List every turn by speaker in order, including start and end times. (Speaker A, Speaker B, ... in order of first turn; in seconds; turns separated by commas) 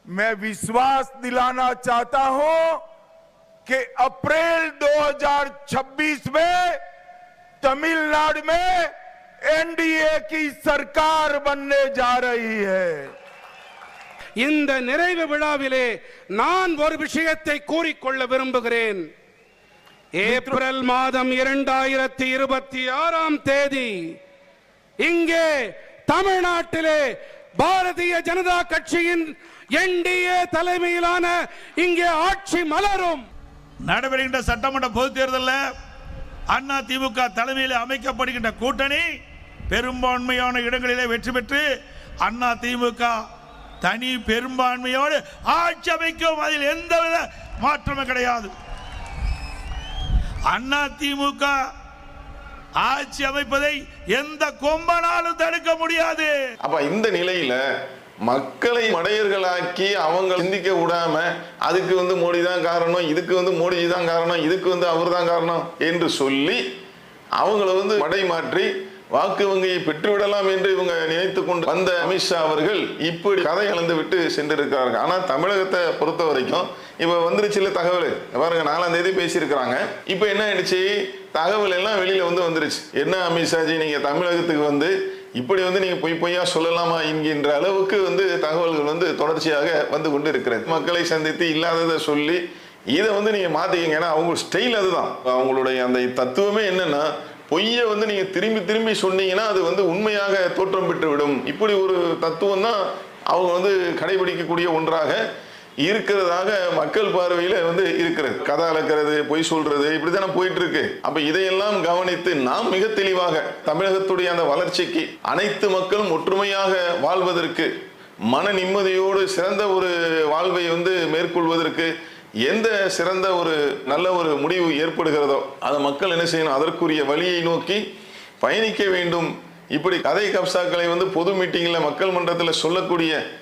Speaker A: 0.2-2.8, Speaker A: 3.7-6.8, Speaker A: 7.6-8.9, Speaker A: 9.5-13.1, Speaker B: 14.4-19.0, Speaker B: 20.2-24.0, Speaker A: 20.2-20.6, Speaker B: 25.0-25.5, Speaker B: 26.1-27.0, Speaker B: 27.6-33.2, Speaker C: 33.9-35.6, Speaker C: 36.5-39.1, Speaker C: 39.7-41.7, Speaker C: 42.2-43.2, Speaker C: 43.8-48.5, Speaker C: 50.5-51.6, Speaker C: 52.8-56.4, Speaker D: 56.6-57.6, Speaker D: 58.2-66.6, Speaker D: 67.4-92.4, Speaker D: 92.9-102.8, Speaker D: 103.3-105.2, Speaker D: 105.8-117.7, Speaker D: 118.3-121.9, Speaker D: 122.5-127.8, Speaker D: 128.4-133.2